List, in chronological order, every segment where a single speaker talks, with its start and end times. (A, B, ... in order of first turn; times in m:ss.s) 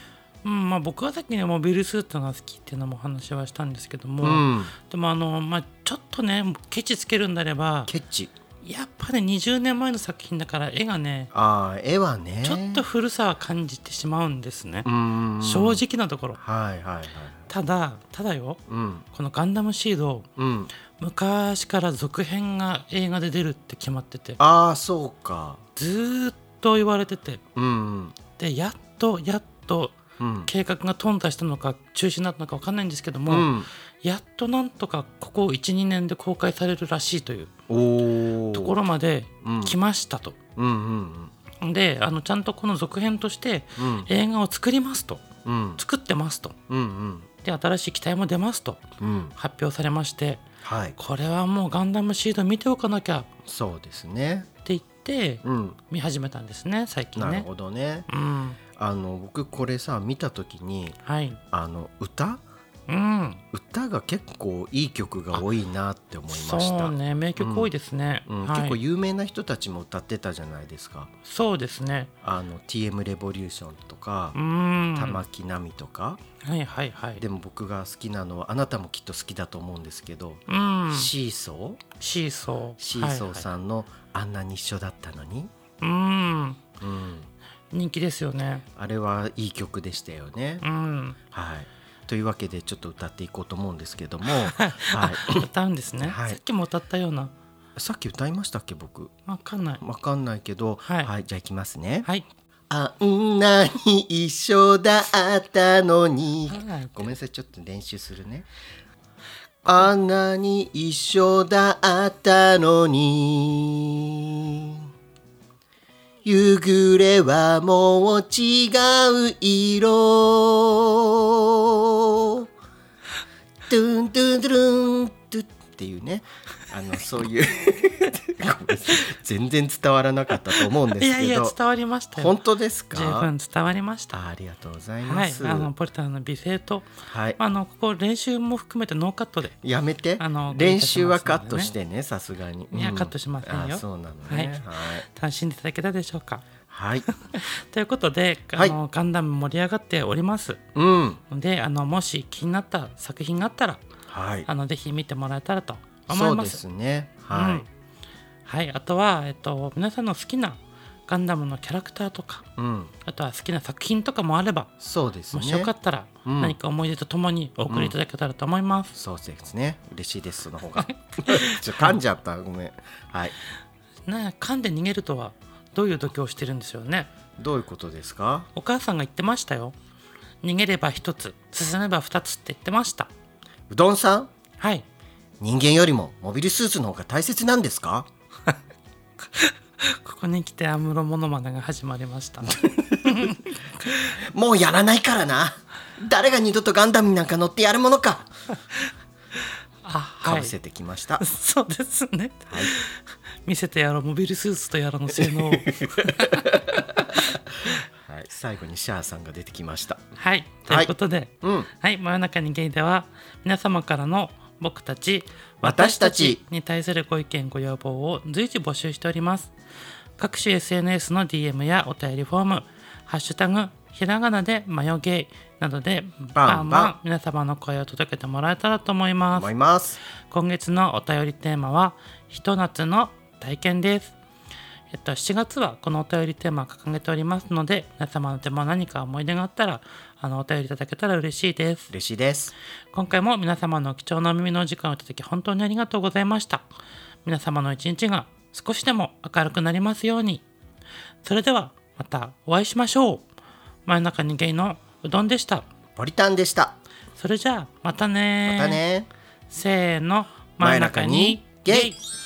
0:00.4-0:07.9 A
0:04.2-0:04.7 B
0:07.9-0:08.3 B
0:08.6-0:11.3 A
0:11.3-0:12.8 B
0:12.4-0:14.9 A
0:14.8-0:15.8 B
0:15.4-0:16.4 A
0:16.4-0:17.5 B
0:17.5-0:18.6 A
0:18.7-0:19.0 B
0:19.1-0:20.3 A
0:20.4-0:20.7 B
0:20.9-0:24.4 A
0:24.4-0:25.6 B
0:25.8-0:27.4 A
0:27.6-0:28.2 B
0:28.4-0:37.5 A
0:30.2-0:30.5 B
0:33.3-0:33.7 B
0:37.7-0:38.8 B
0:38.5-0:40.4 A
0:39.4-0:39.8 B
0:40.6-0:41.3 B
0:41.6-0:45.2 A
0:43.8-0:44.1 B
0:45.4-0:45.8 B
0:45.8-0:46.6 A
0:46.7-0:47.3 B
0:47.4-0:50.4 A
0:49.0-0:49.3 B
0:50.6-0:51.0 B
0:51.0-0:53.3 A
0:53.4-0:54.5 B
0:54.6-0:57.5 A
0:55.4-0:55.8 B
0:57.1-0:58.1 B
0:58.1-0:58.6 A
0:58.7-1:01.0 B
1:01.0-1:01.4 A
1:01.5-1:02.4 B
1:02.9-1:03.4 A
1:03.5-1:07.7 B
1:06.3-1:08.8 A
1:08.3-1:11.1 B
1:11.2-1:12.1 A
1:12.2-1:14.4 B
1:14.3-1:15.2 A
1:14.9-1:16.2 B
1:16.4-1:17.2 A
1:17.2-1:21.8 B
1:20.5-1:21.1 A
1:22.0-1:23.5 A
1:22.8-1:25.5 B
1:25.8-1:26.6 A
1:26.8-1:27.3 B
1:27.7-1:28.6 A
1:28.8-1:30.6 B
1:30.6-1:31.2 A
1:31.3-1:35.5 B
1:34.5-1:37.3 A
1:36.0-1:36.4 B
1:37.8-1:39.1 B
1:39.3-1:39.8 A
1:39.8-1:42.1 B
1:40.8-1:41.1 A
1:42.7-1:48.5 B
1:46.5-1:47.1 A
1:49.6-1:54.9 B
1:56.2-2:02.5 B
2:03.7-2:11.6 B
2:10.9-2:12.3 A
2:12.1-2:13.3 B
2:12.9-2:14.2 A
2:14.1-2:15.7 B
2:15.0-2:19.6 A
2:17.1-2:17.4 B
2:19.6-2:25.0 B
2:20.2-2:21.7 A
2:22.7-2:26.5 A
2:26.7-2:27.0 B
2:27.1-2:30.6 A
2:30.7-2:31.2 B
2:31.3-2:33.8 A
2:34.1-2:34.5 B
2:34.4-2:36.6 A
2:36.1-2:37.6 B
2:37.3-2:37.7 A
2:38.4-2:42.5 A
2:42.6-2:42.9 B
2:43.0-2:44.7 A
2:44.8-2:45.7 B
2:45.3-2:48.9 A
2:46.2-2:46.6 B
2:47.7-2:47.9 B
2:48.9-2:53.3 B
2:50.8-2:52.0 A
2:54.0-2:57.1 A
2:57.4-2:58.5 B
2:58.5-2:59.7 A
3:00.4-3:03.1 A
3:03.7-3:04.3 B
3:04.6-3:04.8 A
3:05.4-3:08.1 B
3:09.4-3:13.6 A
3:12.5-3:18.3 B
3:19.8-3:20.5 A
3:20.2-3:21.2 B
3:21.2-3:26.5 A
3:22.5-3:22.8 B
3:25.2-3:30.0 B
3:27.2-3:27.8 A
3:30.2-3:39.5 A
3:30.7-3:31.7 B
3:35.6-3:36.4 B
3:40.2-3:49.5 A
3:46.3-3:46.9 B
3:49.3-3:50.0 B
3:50.3-3:54.2 A
3:54.9-4:01.9 A
4:01.9-4:02.5 B
4:02.9-4:06.6 A
4:07.2-4:10.4 A
4:11.2-4:13.2 A
4:13.8-4:15.6 A
4:16.0-4:16.8 B
4:17.2-4:18.8 A
4:18.4-4:19.1 B
4:19.5-4:22.0 A
4:20.6-4:21.9 B